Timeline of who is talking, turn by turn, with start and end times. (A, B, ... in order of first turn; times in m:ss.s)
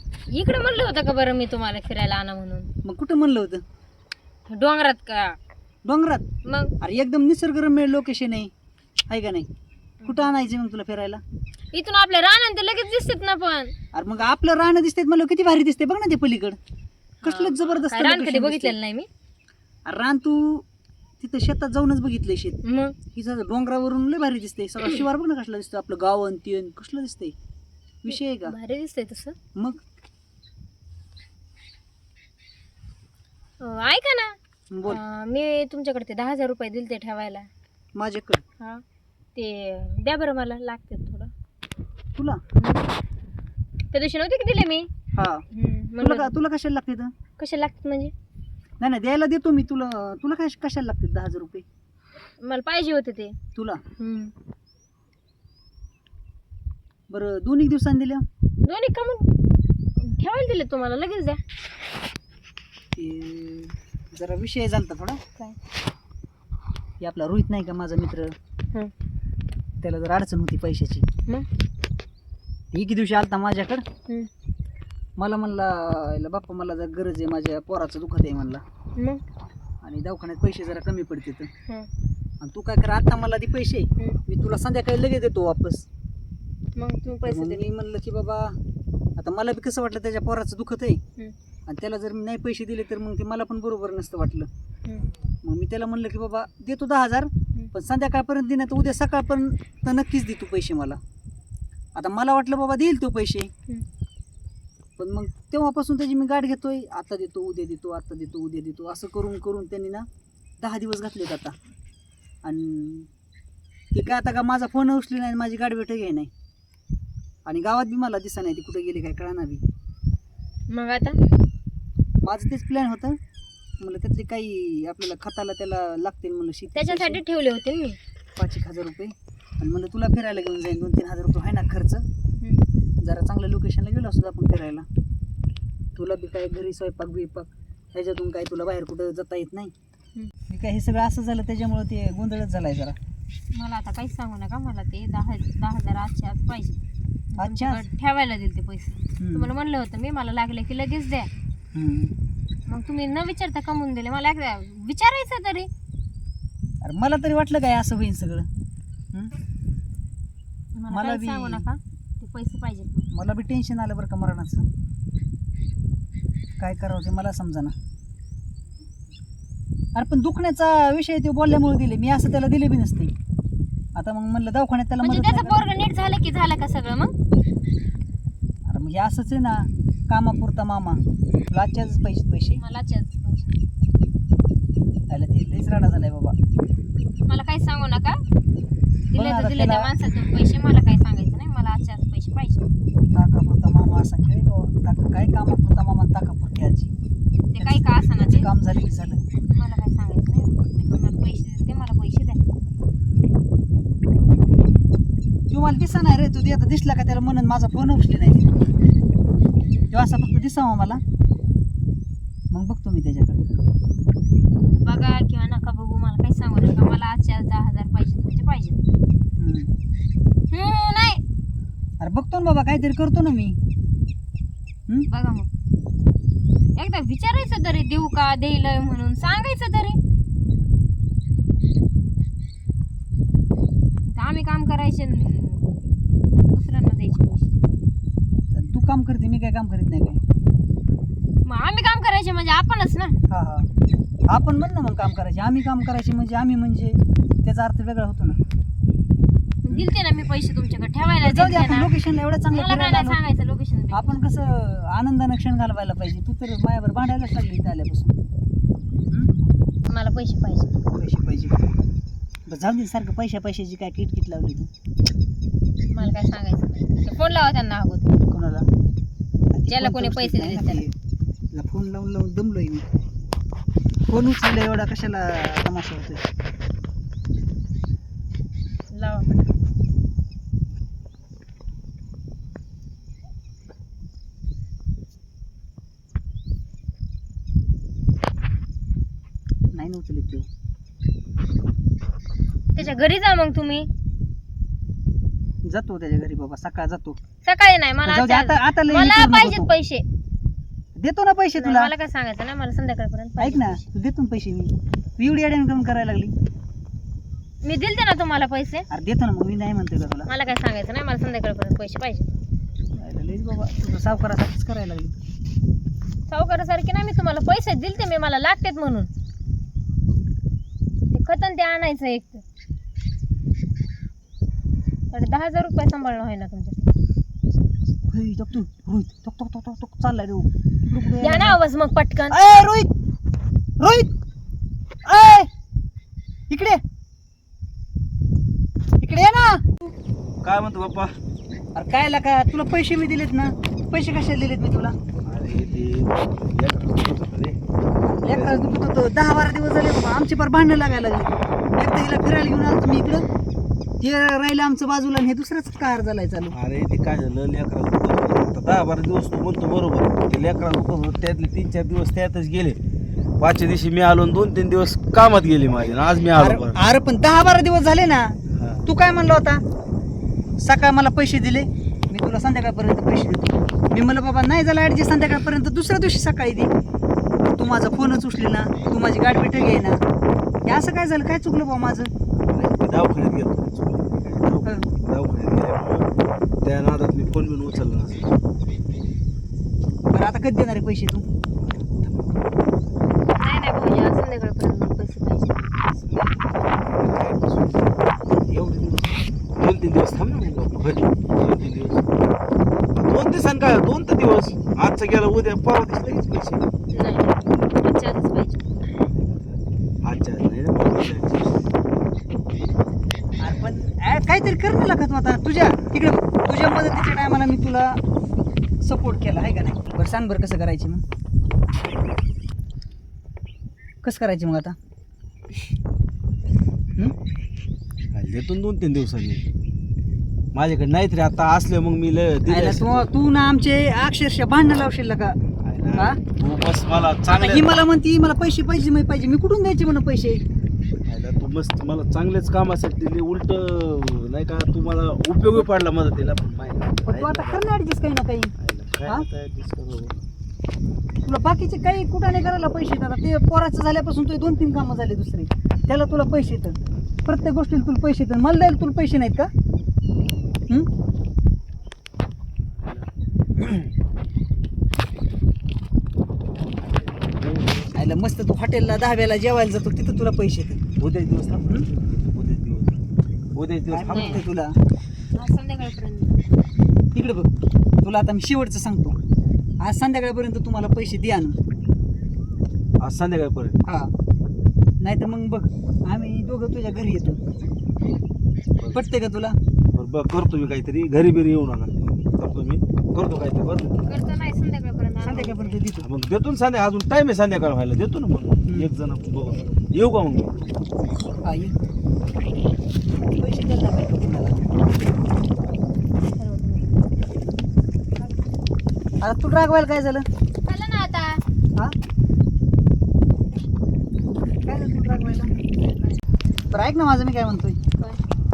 0:00.3-0:02.7 A
0:02.8-0:03.6 B
0:04.5-0:05.4 A
0:05.8-0:06.2 B
0:06.5-0:06.7 A
0:06.8-0:08.5 B
0:09.1-0:09.5 B
0:10.0-0:10.4 A
0:10.0-0:11.2 B
0:11.7-0:13.8 A
0:13.9-0:16.6 B
0:17.2-0:19.1 A
0:17.2-0:18.8 B
0:19.9-0:20.6 B
0:21.2-0:22.6 B
0:22.6-0:23.0 A
0:23.1-0:27.4 B
0:28.0-0:28.6 B
0:28.1-0:29.4 A
0:33.6-0:37.5 A
0:34.7-0:35.0 B
0:38.0-0:38.4 B
0:39.4-0:41.3 A
0:42.2-0:42.4 B
0:42.6-0:42.9 A
0:43.9-0:44.9 A
0:45.2-0:45.5 B
0:45.5-0:46.3 A
0:46.0-0:47.1 B
0:47.4-0:48.1 A
0:48.8-0:51.6 B
0:52.4-0:53.4 A
0:53.6-0:53.8 B
0:54.0-0:54.3 A
0:57.1-0:58.2 B
0:58.6-0:59.3 A
1:00.0-1:01.4 A
1:03.0-1:05.2 B
1:07.0-1:08.4 B
1:09.8-1:11.0 B
1:12.7-1:13.8 B
1:15.2-1:18.6 B
1:19.0-1:19.2 A
1:19.8-1:21.5 B
1:22.4-1:25.9 B
1:26.8-1:27.7 A
1:27.2-1:28.6 B
1:29.2-1:31.0 B
1:31.7-1:34.5 B
1:35.4-1:41.0 B
1:42.0-1:43.5 B
1:45.0-1:50.1 B
1:50.6-1:51.6 B
1:52.4-1:53.1 B
1:53.9-1:56.3 B
1:57.4-1:59.6 B
2:00.7-2:01.2 A
2:02.2-2:03.2 B
2:03.8-2:07.2 B
2:06.8-2:08.0 A
2:08.4-2:12.0 B
2:13.0-2:14.9 B
2:16.0-2:19.7 B
2:20.5-2:23.0 B
2:23.5-2:26.8 A
2:27.3-2:31.3 A
2:27.4-2:27.8 B
2:29.2-2:29.5 B
2:31.7-2:32.1 B
2:32.7-2:35.7 A
2:36.8-2:38.5 B
2:40.8-2:43.1 A
2:40.9-2:41.6 B
2:43.1-2:44.7 B
2:46.6-2:47.7 B
2:50.0-2:53.1 B
2:54.0-2:55.6 B
2:55.0-2:57.2 A
2:58.6-3:02.6 B
3:02.6-3:03.5 A
3:05.1-3:06.4 B
3:07.3-3:08.2 A
3:09.1-3:12.7 A
3:09.1-3:09.9 B
3:13.1-3:16.9 B
3:17.5-3:18.5 A
3:17.6-3:19.2 B
3:19.5-3:22.4 A
3:25.5-3:28.5 B
3:29.9-3:31.0 B
3:32.5-3:33.4 B
3:34.6-3:38.8 A
3:39.4-3:39.7 B
3:40.5-3:41.2 A
3:42.0-3:43.6 B
3:45.1-3:45.5 A
3:46.8-3:50.0 A
3:54.1-3:55.7 A
3:56.5-3:57.5 A
3:58.5-4:00.2 B
4:01.4-4:03.2 A
4:03.3-4:03.7 B
4:04.3-4:08.4 B
4:09.6-4:12.0 A
4:11.2-4:13.2 B
4:12.5-4:14.2 A
4:13.9-4:18.2 B
4:19.9-4:20.7 A
4:20.9-4:21.6 B
4:22.5-4:24.7 B
4:25.9-4:28.2 A
4:28.3-4:28.7 B
4:29.5-4:30.9 B
4:29.7-4:30.8 A
4:31.5-4:32.9 B
4:34.1-4:36.2 B
4:38.9-4:39.4 A
4:49.7-4:50.5 B
4:52.8-4:53.9 A
4:55.6-4:57.2 B
4:57.4-5:00.0 A
4:58.0-4:59.7 B
5:01.0-5:01.9 B
5:01.6-5:03.8 A
5:03.4-5:06.3 B
5:07.6-5:08.9 A
5:08.9-5:10.3 B
5:10.3-5:12.4 A
5:13.0-5:15.1 B
5:16.3-5:19.1 A
5:21.1-5:22.4 A
5:25.1-5:26.9 A
5:28.1-5:31.6 B
5:31.1-5:32.4 A
5:32.3-5:32.9 B
5:33.8-5:34.1 B
5:35.0-5:35.5 B
5:36.5-5:36.8 B
5:39.0-5:39.7 B
5:40.4-5:41.2 C
5:41.8-5:45.0 B
5:45.2-5:47.6 C
5:48.0-5:53.3 B
5:48.2-5:48.8 C
5:54.0-5:56.6 B
5:56.5-6:02.8 C
6:03.4-6:06.8 C
6:06.4-6:09.6 B
6:08.6-6:08.9 C
6:10.6-6:16.7 B
6:17.6-6:20.0 B
6:20.6-6:22.1 B
6:22.4-6:26.1 C
6:26.6-6:28.4 C
6:30.1-6:31.3 B
6:31.7-6:32.4 C
6:33.4-6:35.8 A
6:36.0-6:42.0 C
6:42.9-6:46.7 C
6:46.9-6:48.6 A
6:49.3-6:51.7 C
6:53.4-6:58.0 B
6:58.8-7:01.0 B
7:04.0-7:04.8 B
7:08.1-7:09.4 C
7:10.5-7:13.1 C
7:12.5-7:15.4 B
7:15.6-7:17.8 C
7:15.9-7:16.2 B
7:17.3-7:20.4 B
7:21.1-7:27.7 C
7:27.1-7:28.5 B
7:28.6-7:30.2 C
7:31.2-7:39.5 B
7:42.8-7:43.9 C
7:46.8-7:48.0 C
7:47.9-7:50.8 B
7:51.0-7:53.0 C
7:53.6-7:54.4 C
7:53.9-7:54.8 B
7:54.1-7:54.4 A
7:55.4-7:56.4 A
7:57.1-7:57.5 B
7:58.0-7:59.2 B
7:59.8-8:01.6 B
8:03.0-8:03.8 C
8:03.8-8:04.1 B
8:05.0-8:07.4 B
8:08.9-8:09.6 B
8:09.9-8:14.0 C
8:14.0-8:15.8 A
8:15.2-8:16.1 B
8:16.0-8:20.7 C
8:21.4-8:21.7 B
8:23.2-8:24.6 B
8:26.4-8:26.9 A
8:29.2-8:30.3 B
8:30.6-8:31.4 A
8:34.6-8:35.5 B
8:36.7-8:37.8 B